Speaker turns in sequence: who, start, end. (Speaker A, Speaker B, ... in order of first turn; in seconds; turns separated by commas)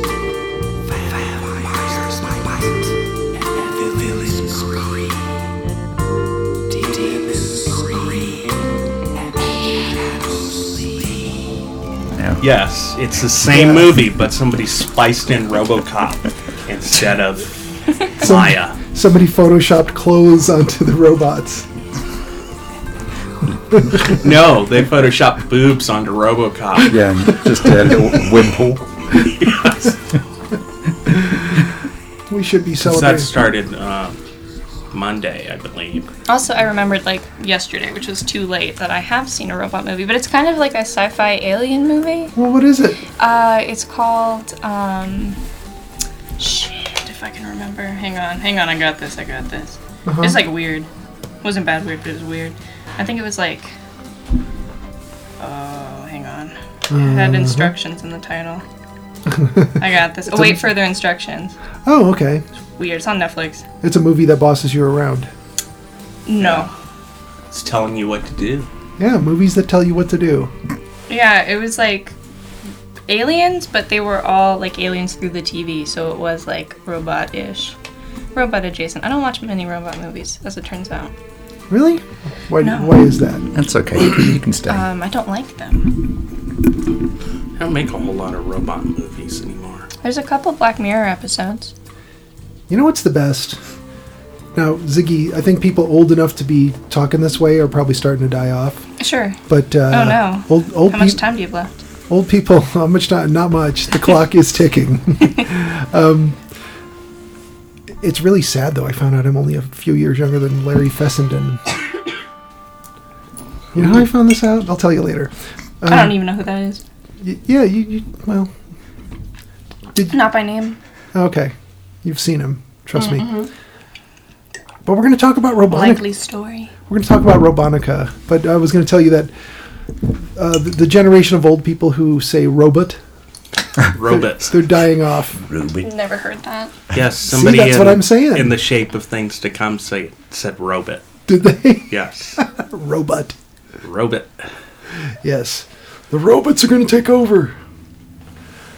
Speaker A: 1.2-2.2, Speaker A: 3.7-5.0, Speaker A: 6.7-8.5, Speaker B: 12.1-12.4, Speaker A: 12.4-18.8, Speaker C: 13.5-13.9, Speaker C: 18.2-21.7, Speaker C: 23.7-24.1, Speaker A: 24.0-27.0, Speaker B: 26.9-29.6, Speaker A: 29.4-29.7, Speaker C: 31.1-31.5, Speaker C: 32.3-33.3, Speaker A: 32.8-34.2, Speaker A: 34.9-36.1, Speaker D: 36.3-42.3, Speaker C: 42.4-43.0, Speaker D: 43.2-45.4, Speaker D: 46.4-50.9, Speaker C: 50.1-50.4, Speaker D: 51.4-53.7, Speaker D: 55.4-58.6, Speaker C: 56.9-57.7, Speaker C: 59.3-60.7, Speaker D: 59.8-61.5, Speaker C: 61.9-62.4, Speaker D: 62.8-63.6, Speaker C: 63.8-65.3, Speaker D: 66.3-66.7, Speaker A: 67.5-68.7, Speaker C: 69.0-70.5, Speaker D: 71.1-72.2, Speaker D: 73.1-77.8, Speaker D: 78.3-81.1, Speaker C: 81.7-83.5, Speaker D: 82.6-82.9, Speaker B: 83.5-84.9, Speaker D: 84.7-86.0, Speaker A: 87.6-89.9, Speaker D: 90.0-91.7, Speaker C: 92.7-93.6, Speaker C: 94.5-98.9, Speaker D: 99.0-99.4, Speaker C: 99.5-101.2, Speaker D: 99.9-101.8, Speaker C: 102.1-106.4, Speaker C: 108.0-111.7, Speaker C: 113.7-116.2, Speaker D: 115.9-116.8, Speaker C: 117.2-118.5, Speaker D: 120.1-120.8, Speaker C: 121.1-123.4, Speaker D: 123.0-123.5, Speaker C: 124.8-126.0, Speaker D: 125.7-126.7, Speaker C: 126.9-129.3, Speaker C: 130.3-133.0, Speaker A: 133.9-134.7, Speaker C: 134.1-135.4, Speaker B: 135.3-135.9, Speaker D: 135.8-136.7, Speaker A: 136.9-141.1, Speaker C: 137.3-138.6, Speaker C: 141.3-143.3, Speaker A: 141.9-142.4, Speaker A: 143.8-144.5, Speaker C: 145.1-147.6